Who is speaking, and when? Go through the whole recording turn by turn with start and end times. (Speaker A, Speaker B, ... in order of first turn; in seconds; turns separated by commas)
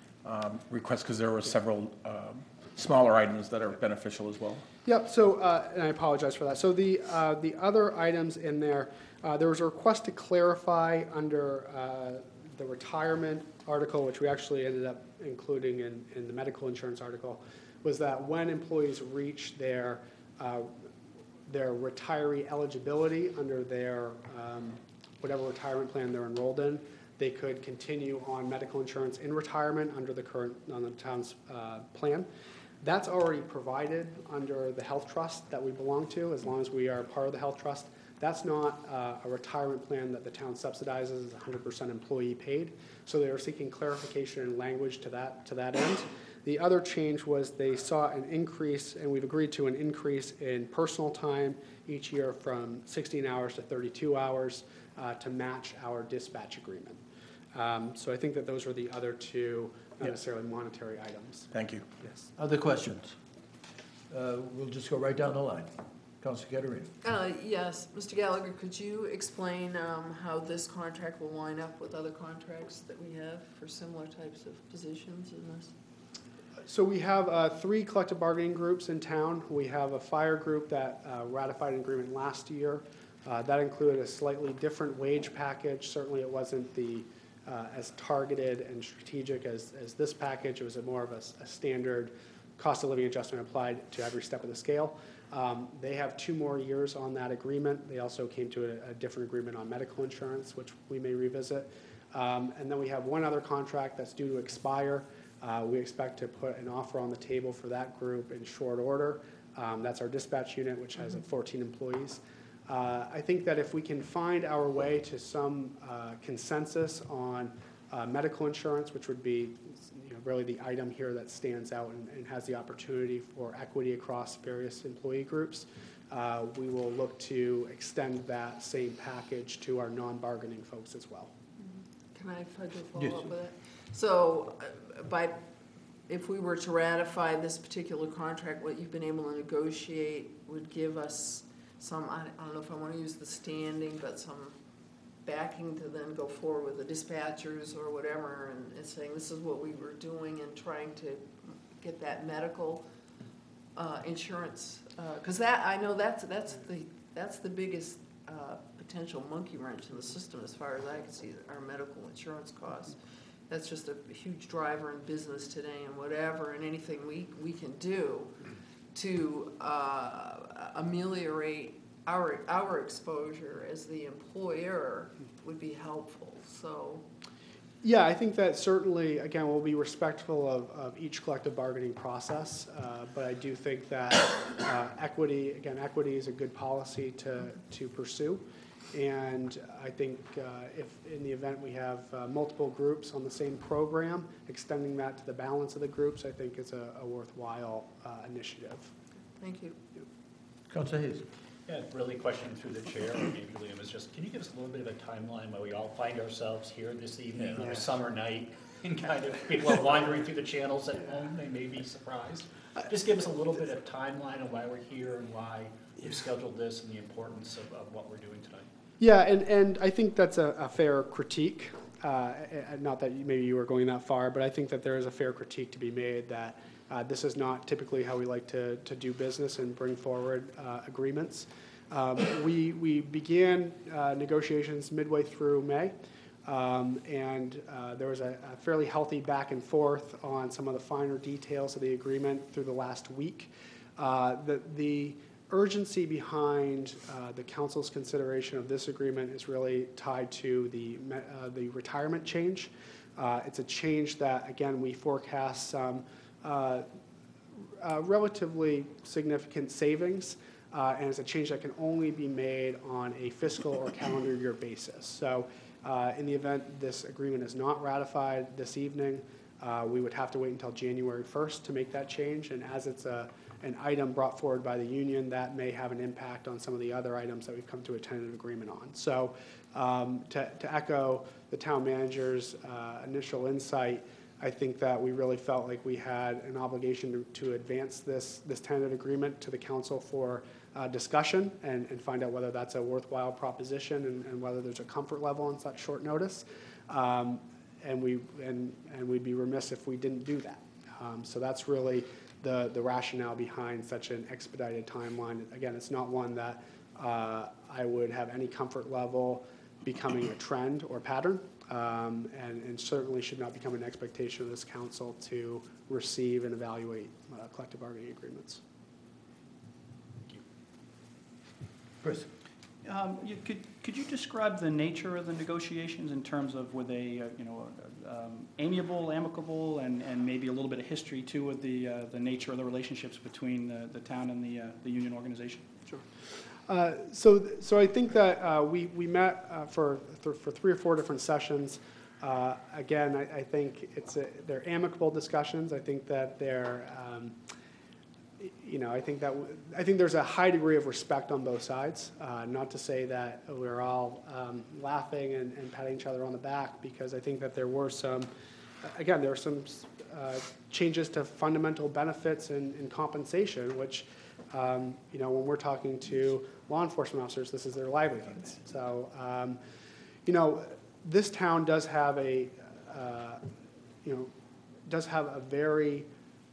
Speaker A: 0.2-4.6, Speaker B: 4.8-20.7, Speaker B: 21.5-32.3, Speaker B: 32.8-57.0, Speaker B: 57.5-61.5, Speaker A: 61.5-61.8, Speaker C: 62.4-63.2, Speaker C: 64.1-66.9, Speaker D: 67.0-75.7, Speaker B: 76.6-131.3, Speaker D: 131.6-135.4, Speaker C: 133.0-133.3, Speaker D: 136.1-144.6, Speaker D: 145.2-152.8, Speaker D: 153.7-163.0, Speaker D: 163.5-168.4, Speaker D: 168.9-177.1, Speaker B: 177.8-198.9, Speaker D: 199.4-199.8, Speaker C: 200.7-201.3, Speaker E: 201.7-218.7, Speaker B: 219.0-235.9, Speaker B: 236.4-256.9, Speaker B: 257.8-318.6, Speaker C: 322.0-322.3, Speaker F: 322.8-336.0, Speaker B: 336.7-347.4, Speaker B: 348.4-358.3, Speaker B: 358.8-369.6, Speaker B: 370.2-373.4, Speaker B: 374.0-374.3, Speaker B: 374.9-376.1